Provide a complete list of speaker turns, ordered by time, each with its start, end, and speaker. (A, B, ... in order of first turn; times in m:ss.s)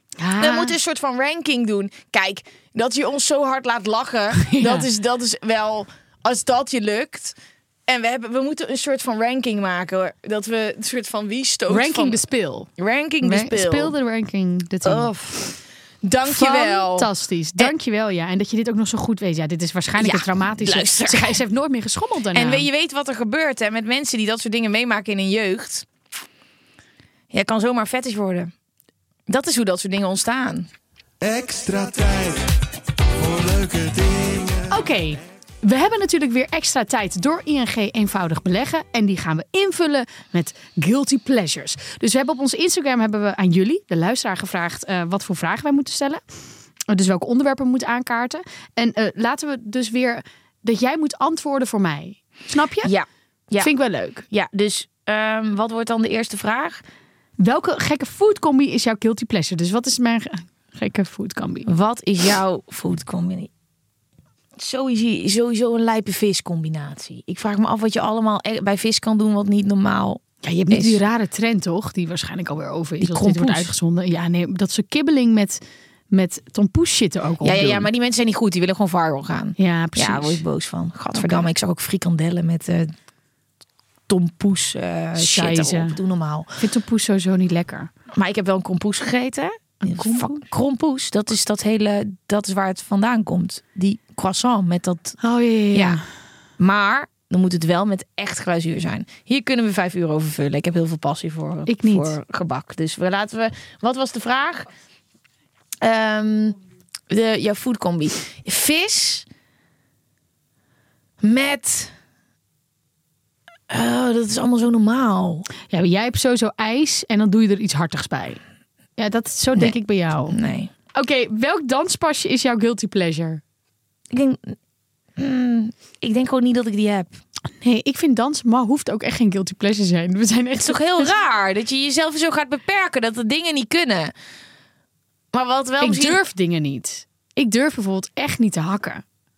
0:00.2-0:00.8 A
0:00.4-0:07.4 B
0:04.4-0:04.9 A
0:07.9-0:12.2 B
0:11.7-0:12.7 A
0:12.8-0:13.9 B
0:13.2-0:15.6 A
0:14.8-0:15.5 B
0:16.0-0:17.7 B
0:16.2-0:22.7 A
0:20.0-0:21.4 B
0:22.3-0:25.9 B
0:27.3-0:28.5 B
0:29.3-0:30.7 B
0:31.2-0:32.5 C
0:33.2-0:34.6 C
0:34.7-0:46.2 A
0:46.9-0:53.0 A
0:52.8-0:53.7 B
0:53.6-0:54.3 A
0:54.3-0:56.8 B
0:57.4-1:01.7 A
1:01.6-1:03.5 B
1:04.6-1:11.0 B
1:10.4-1:17.9 A
1:13.0-1:13.7 B
1:17.4-1:22.9 B
1:19.6-1:20.4 A
1:21.1-1:21.5 A
1:24.1-1:26.6 B
1:25.2-1:26.0 A
1:26.6-1:27.9 A
1:28.1-1:35.2 B
1:29.8-1:30.5 A
1:35.2-1:36.0 A
1:35.7-1:36.0 B
1:36.6-1:44.7 B
1:41.7-1:42.2 A
1:45.8-1:49.2 B
1:51.2-1:51.9 B
1:53.7-1:55.5 B
1:55.7-1:58.4 A
1:59.0-2:00.4 A
1:59.6-2:00.7 B
2:00.9-2:03.4 A
2:04.1-2:04.6 B
2:05.2-2:07.2 B
2:07.6-2:11.1 A
2:10.6-2:14.1 B
2:15.3-2:16.2 B
2:15.8-2:19.0 A